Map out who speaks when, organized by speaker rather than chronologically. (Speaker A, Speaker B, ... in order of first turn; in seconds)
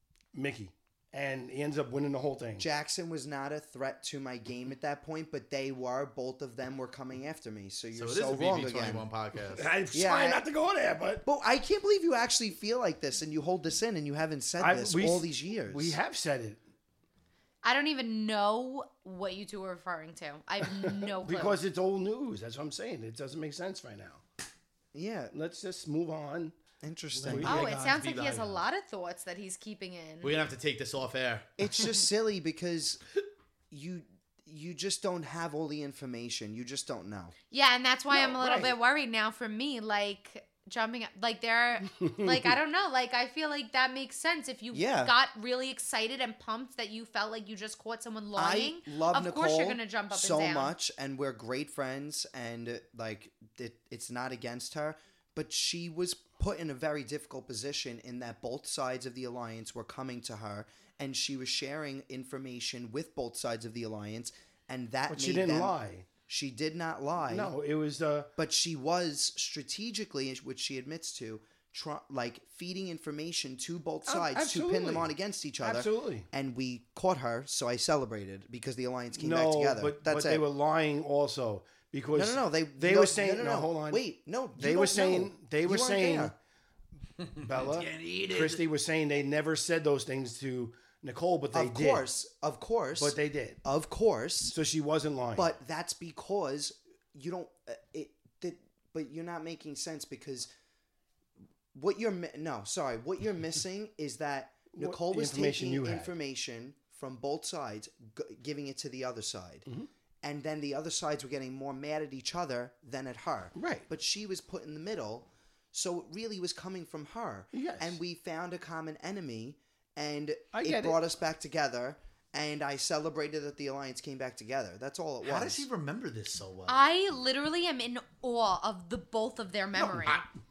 Speaker A: 0.3-2.6, 9.5-11.2, 14.6-16.6, 20.6-24.2, 25.3-26.5, 27.2-27.6, 38.1-38.7, 42.0-42.5, 65.1-66.1, 67.3-68.3, 74.0-76.3, 79.1-84.0, 84.6-86.3, 87.4-92.0, 93.0-93.6, 94.5-95.5, 104.8-106.1, 113.5-113.8, 117.5-118.0, 120.5-121.0
Speaker B: 2.6-9.1, 9.9-10.4, 11.2-16.0, 24.9-25.3, 26.8-27.5, 31.6-33.0, 33.7-37.3, 44.7-45.1, 48.4-67.5, 68.3-80.5, 82.1-86.3, 91.5-94.5, 95.3-100.5, 101.7-109.7, 110.2-125.7, 129.8-130.2
Speaker C: 7.9-9.7, 27.1-28.6, 30.2-31.5, 87.5-88.7, 125.2-126.8
Speaker D: 17.6-21.6, 27.4-30.3, 37.5-50.8, 126.7-130.2